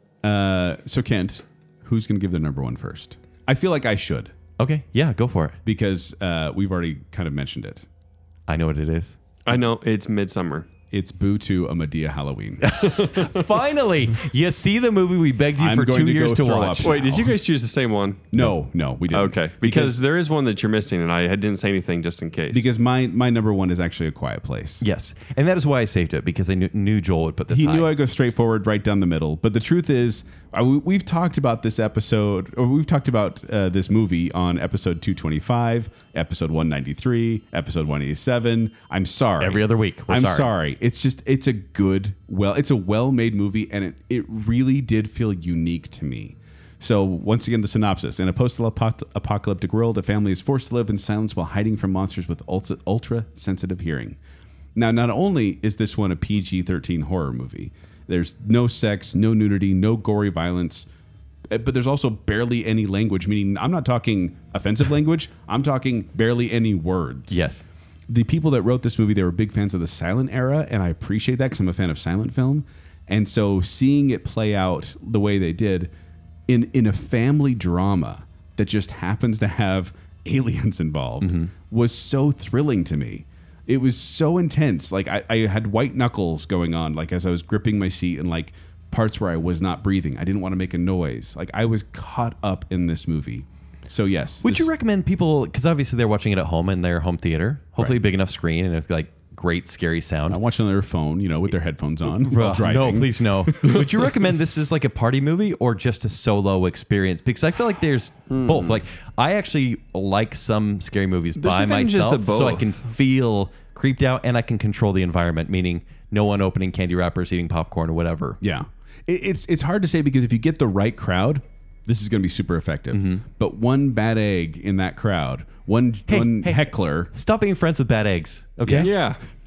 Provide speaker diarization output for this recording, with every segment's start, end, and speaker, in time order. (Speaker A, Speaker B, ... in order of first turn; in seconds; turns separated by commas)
Speaker A: 0.2-4.3, Speaker B: 4.6-5.6, Speaker A: 5.7-7.9, Speaker B: 8.5-9.2, Speaker C: 9.4-10.7, Speaker A: 10.9-12.7, Speaker B: 12.6-16.9, Speaker C: 12.8-13.4, Speaker A: 15.6-17.4, Speaker C: 16.8-18.3, Speaker A: 18.3-20.0, Speaker C: 19.1-22.7, Speaker A: 22.5-24.8, Speaker B: 24.8-27.9, Speaker A: 27.5-54.2, Speaker B: 39.4-40.5, Speaker A: 54.8-60.9, Speaker A: 61.5-67.4, Speaker B: 67.3-67.6, Speaker A: 68.1-75.9, Speaker A: 76.5-94.7, Speaker B: 81.2-81.5, Speaker B: 94.4-100.4, Speaker A: 100.3-103.2, Speaker B: 102.2-118.4, Speaker C: 103.6-104.1, Speaker C: 108.3-108.8, Speaker C: 111.4-112.8, Speaker A: 118.4-127.1, Speaker B: 122.9-123.2, Speaker B: 126.1-128.9, Speaker A: 128.7-128.9, Speaker C: 128.8-129.2